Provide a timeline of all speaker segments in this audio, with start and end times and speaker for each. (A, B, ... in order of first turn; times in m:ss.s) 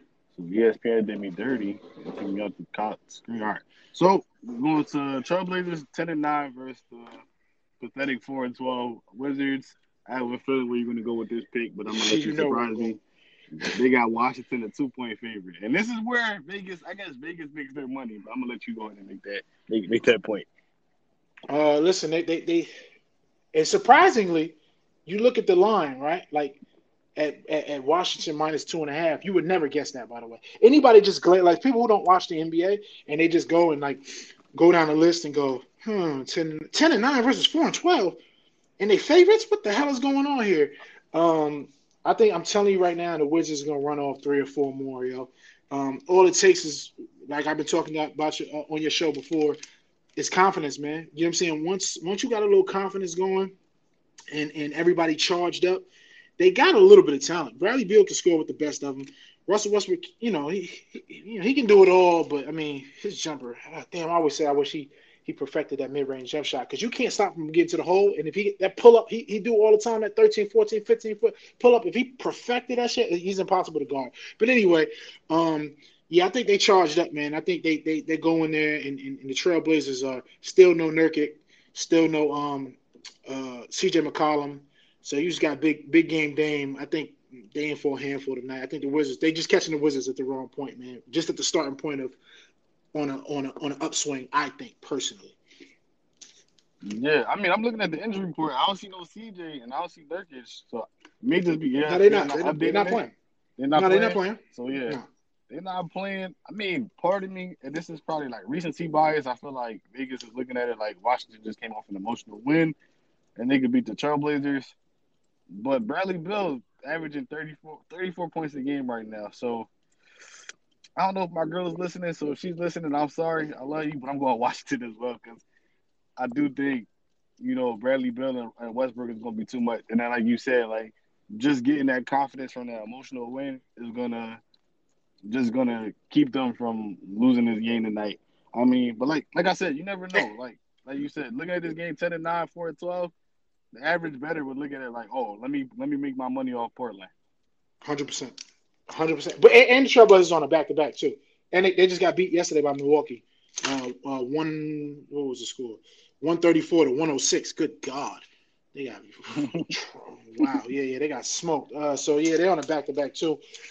0:00.3-0:07.2 A
0:07.8-0:13.0 A
0:11.9-0:13.0 B
0:13.6-0:20.5 A
0:21.5-0:22.7 B
0:23.5-0:26.6 B
0:27.2-0:38.2 B
0:38.8-0:49.6 B
0:50.2-0:53.5 B
0:54.3-0:55.9 B
0:56.4-1:32.2 B
1:32.9-1:35.4 B
1:36.8-1:43.0 A
1:41.8-1:43.1 B
1:43.6-1:45.0 A
1:43.8-1:45.1 B
1:45.5-1:52.8 A
1:53.4-1:54.8 A
1:55.5-1:59.7 A
2:01.0-2:05.4 A
2:06.2-2:06.9 A
2:07.4-2:14.4 A
2:15.3-2:23.1 A
2:23.7-2:27.1 A
2:27.8-2:28.4 B
2:28.9-2:43.4 B
2:39.4-2:39.7 A